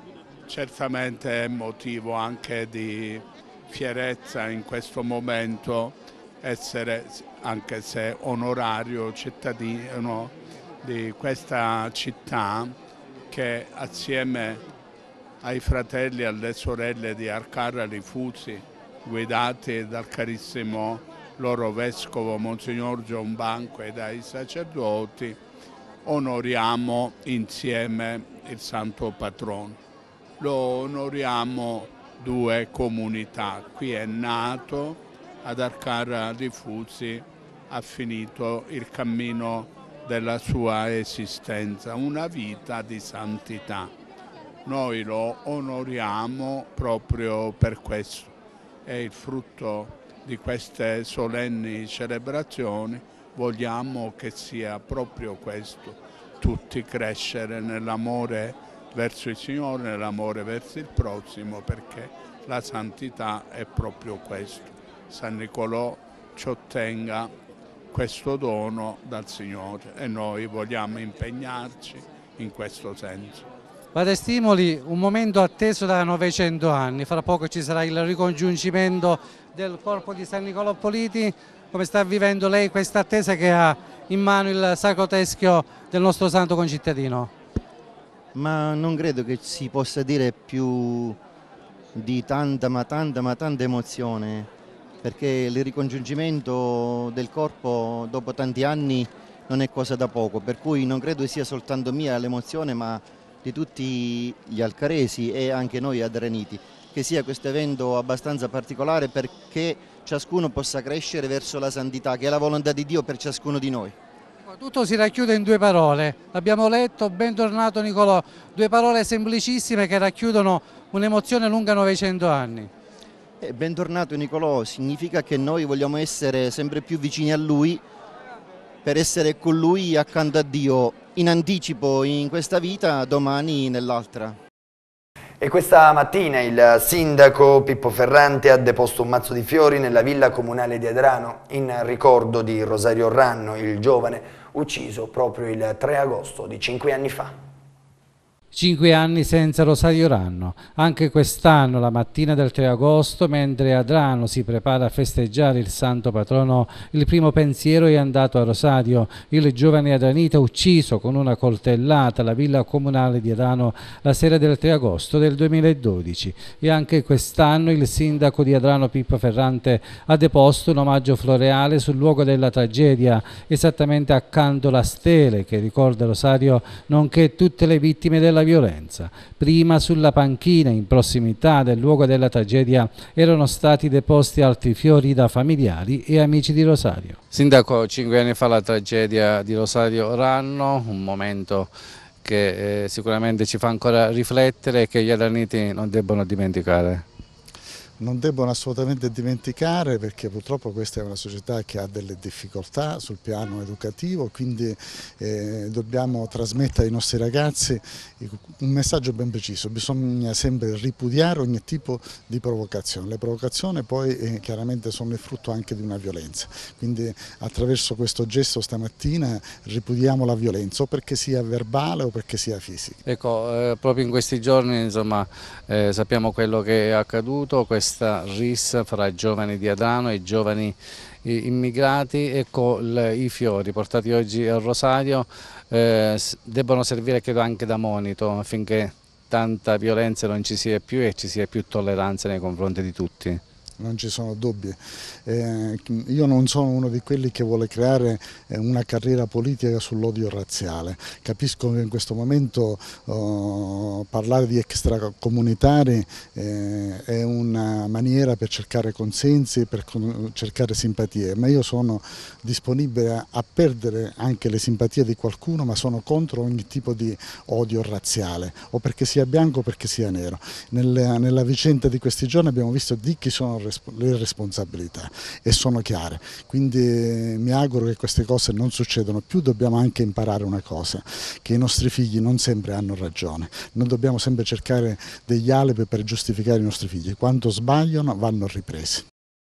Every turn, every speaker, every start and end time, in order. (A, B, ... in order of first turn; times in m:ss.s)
0:00.5-0:12.7 A
0:13.3-0:14.6 A
0:15.4-0:25.4 A
0:26.0-0:29.8 A
0:30.4-0:43.9 A
0:44.6-0:48.3 A
0:48.8-1:07.3 A
1:07.9-1:13.5 A
1:13.9-1:27.3 B
1:28.3-1:31.2 C
1:32.0-1:34.5 C
1:35.0-1:54.0 C
1:54.5-2:02.7 B
2:03.4-2:07.8 C
2:08.8-2:14.4 C
2:15.4-2:27.4 D
2:28.5-3:07.2 E
3:07.3-3:11.7 F
3:12.2-3:17.0 F
3:18.0-3:43.0 G
3:43.0-4:03.4 F
4:03.8-4:49.1 G